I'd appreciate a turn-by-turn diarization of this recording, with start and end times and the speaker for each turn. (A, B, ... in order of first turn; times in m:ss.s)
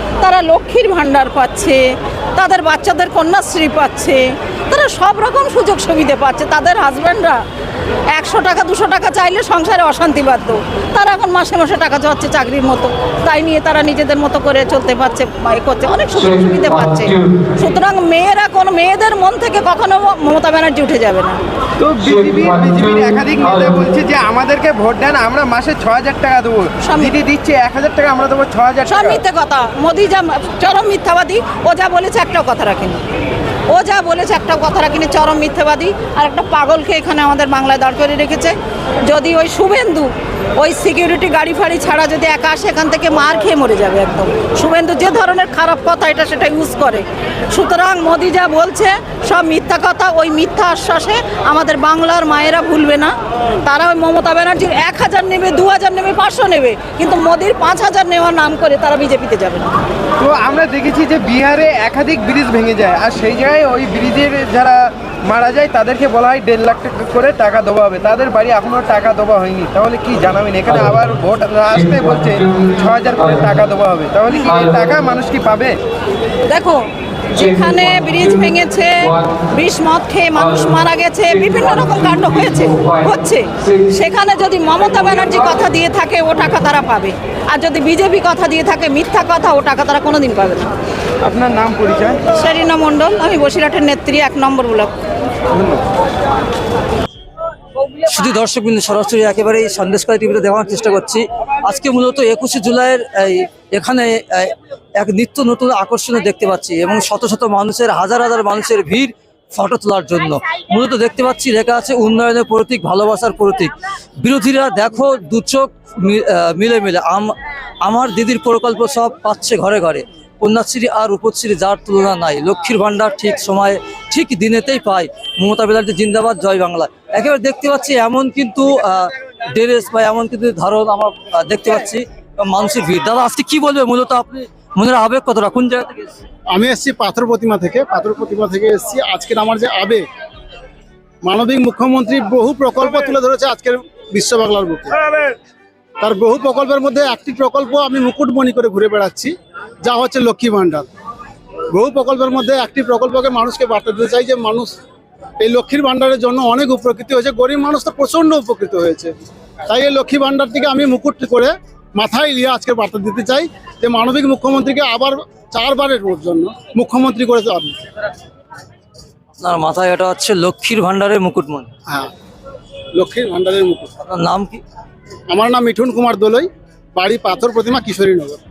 0:00.2-0:07.4 A
0:08.1-0:21.4 A
0:21.8-0:29.2 B
0:26.8-0:27.1 A
0:28.8-0:33.0 A
0:33.7-0:38.5 A
0:39.0-0:53.1 A
0:53.6-0:59.7 A
1:00.2-1:15.8 B
1:16.5-1:30.7 A
1:31.2-1:32.2 B
1:32.3-1:35.0 A
1:35.5-1:35.8 B
1:38.0-2:16.1 C
2:16.5-2:20.0 D
2:21.2-2:25.3 D
2:26.0-2:30.9 D
2:31.7-2:34.8 D
2:35.4-2:39.1 D
2:39.7-2:47.8 D
2:49.4-2:51.7 C
2:52.9-2:53.9 D
2:54.0-2:54.6 C
2:55.3-2:58.4 D